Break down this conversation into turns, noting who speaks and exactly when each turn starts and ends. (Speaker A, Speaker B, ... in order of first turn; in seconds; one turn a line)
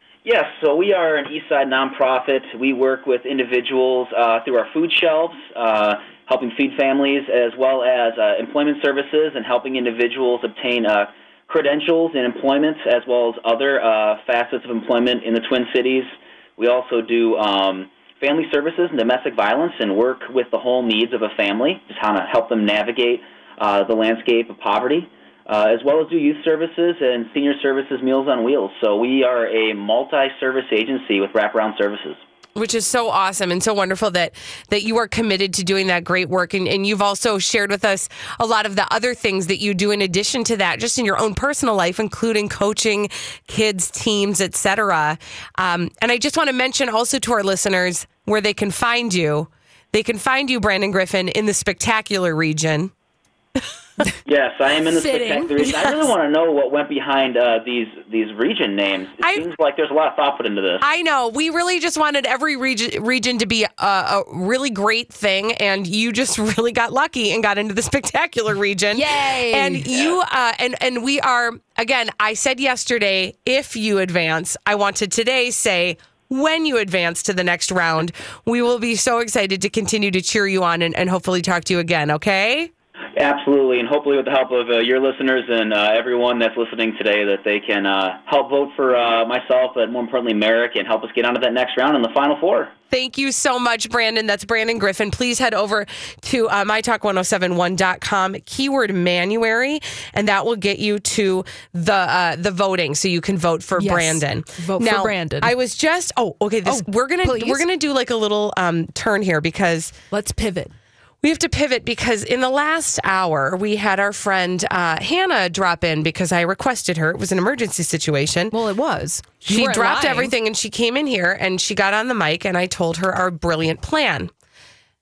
Speaker A: 0.2-32.2
Speaker B: 32.6-52.9
Speaker A: 54.3-60.8
Speaker C: 54.9-55.9
Speaker B: 59.2-59.5
Speaker B: 60.8-82.7
Speaker C: 68.9-70.1
Speaker A: 83.2-92.7
Speaker B: 92.9-109.9
Speaker C: 103.8-105.5
Speaker C: 106.7-107.7
Speaker C: 110.1-110.7
Speaker B: 111.2-118.5
Speaker C: 118.5-120.3
Speaker B: 119.5-124.3